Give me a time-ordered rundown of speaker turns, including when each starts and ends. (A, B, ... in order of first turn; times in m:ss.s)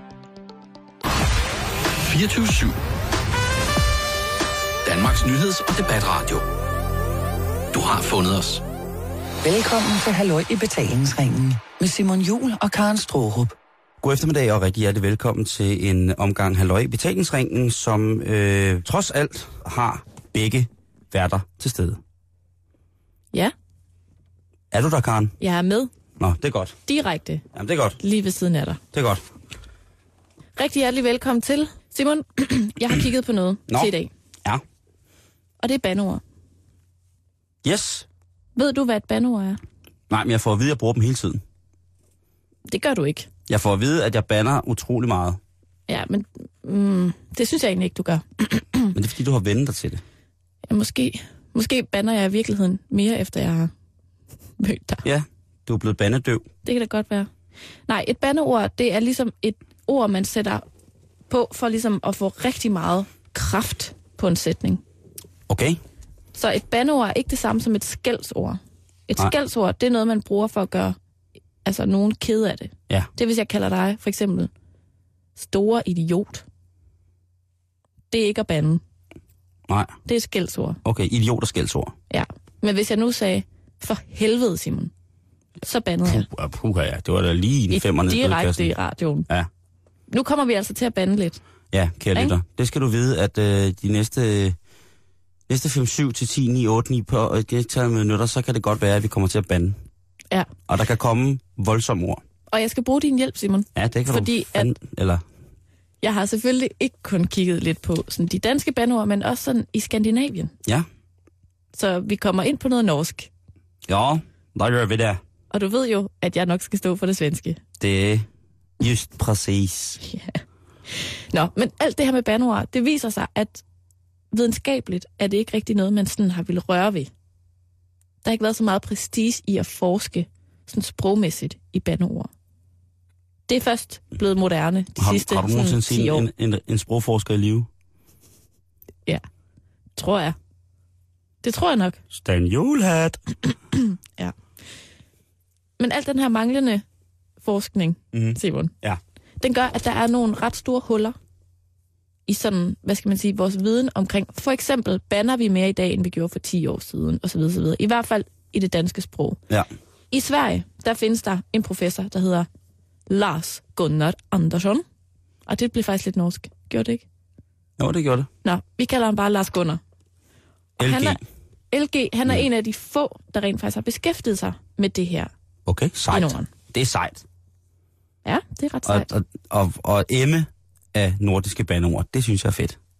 0:02.0-0:02.8 A
0:04.8-0:06.4 A
0:07.7-0:08.6 A
0:09.4-0:13.5 B
0:14.0-0:22.0 C
0:24.7-0:25.3 C
0:25.4-0:25.9 D
0:26.2-0:26.8 C
0:26.9-0:27.4 D
0:27.5-0:28.0 C
0:28.0-0:28.8 D
0:28.9-0:29.2 C
0:30.6-0:34.1 D
0:35.6-0:36.2 D
0:37.6-0:38.1 C
0:38.6-0:39.6 D
0:40.1-0:41.4 C
0:42.7-0:43.3 D
0:43.5-0:45.4 C
0:45.9-0:48.9 D
0:48.9-0:50.0 C
0:50.7-0:53.7 D
0:54.6-0:55.0 D
0:55.0-0:56.5 C
0:56.6-0:57.3 D
0:57.9-1:00.6 D
1:01.3-1:04.8 D
1:05.5-1:05.8 C
1:06.4-1:11.0 D
1:11.6-1:14.5 D
1:15.4-1:16.4 D
1:18.1-1:18.8 D
1:19.7-1:20.0 C
1:20.1-1:20.8 D
1:20.8-1:22.0 C
1:22.1-1:24.9 D
1:25.6-1:26.3 D
1:26.0-1:28.7 C
1:27.7-1:29.3 D
1:30.1-1:31.4 D
1:31.7-1:34.6 C
1:35.5-1:39.8 C
1:40.7-1:42.2 C
1:42.5-1:44.7 D
1:43.8-1:45.2 C
1:46.0-1:50.5 D
1:51.7-1:53.3 D
1:53.9-1:55.2 C
1:55.5-1:57.6 D
1:57.8-1:58.3 C
1:58.8-2:00.0 C
2:00.0-2:03.6 D
2:04.3-2:07.1 D
2:08.2-2:12.3 D
2:13.5-2:16.3 D
2:15.0-2:17.7 C
2:20.0-2:20.4 D
2:21.4-2:22.0 D
2:22.1-2:23.2 C
2:25.8-2:26.8 D
2:27.4-2:28.7 D
2:28.1-2:29.0 C
2:29.4-2:31.2 D
2:32.3-2:39.4 D
2:40.1-2:42.5 D
2:43.1-2:44.8 D
2:45.5-2:47.0 D
2:47.8-2:48.3 C
2:48.4-2:49.8 D
2:50.8-2:51.2 D
2:50.8-2:51.2 C
2:51.7-2:55.3 D
2:55.7-2:57.2 C
2:56.1-2:56.5 D
2:58.2-2:59.1 D
2:58.9-3:02.8 C